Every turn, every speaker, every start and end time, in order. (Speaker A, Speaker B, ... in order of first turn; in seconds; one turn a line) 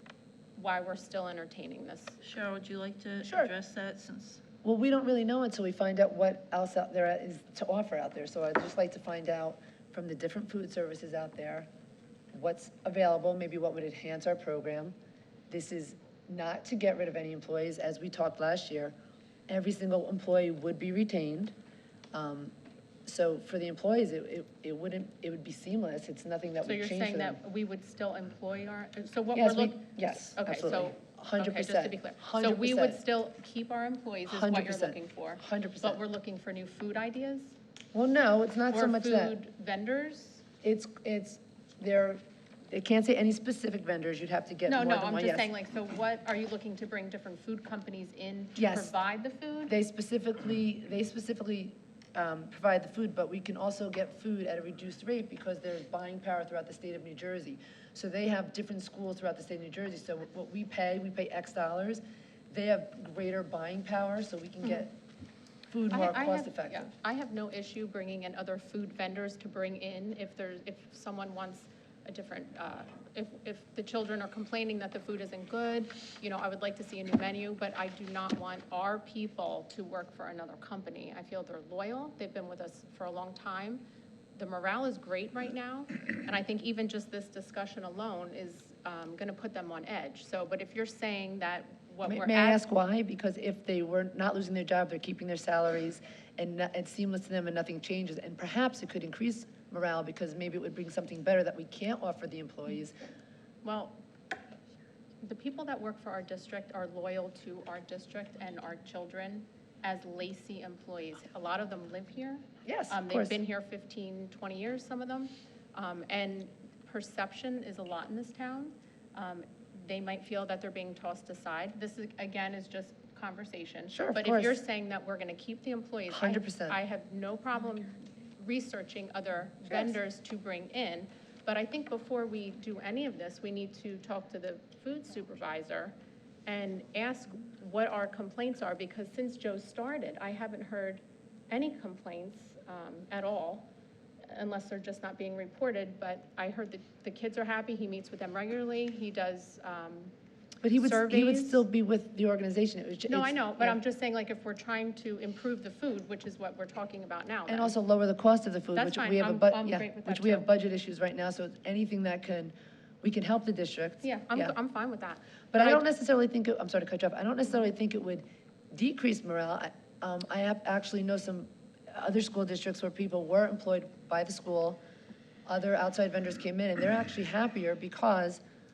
Speaker A: 0.6-2.2
Speaker B: 2.2-4.4
Speaker C: 3.2-3.5
Speaker C: 4.6-11.7
Speaker C: 12.3-14.9
Speaker C: 15.5-18.9
Speaker C: 19.5-21.5
Speaker C: 22.1-22.5
Speaker C: 23.1-27.4
Speaker A: 26.6-37.6
Speaker C: 29.3-33.0
Speaker C: 34.3-36.0
Speaker C: 37.9-39.4
Speaker A: 38.7-40.5
Speaker C: 40.6-45.5
Speaker A: 44.7-49.7
Speaker C: 48.6-48.9
Speaker C: 49.7-65.0
Speaker C: 65.7-66.9
Speaker A: 65.9-83.8
Speaker A: 84.3-92.6
Speaker C: 92.0-102.9
Speaker A: 103.6-104.0
Speaker A: 105.2-135.9
Speaker C: 112.6-113.4
Speaker C: 123.9-124.6
Speaker C: 126.1-126.8
Speaker C: 129.7-130.0
Speaker A: 136.5-143.7
Speaker A: 144.3-150.1
Speaker C: 150.6-153.8
Speaker A: 150.8-151.7
Speaker A: 153.1-157.7
Speaker C: 157.5-164.5
Speaker A: 158.8-160.5
Speaker A: 164.0-165.8
Speaker C: 165.5-174.8
Speaker C: 175.5-178.4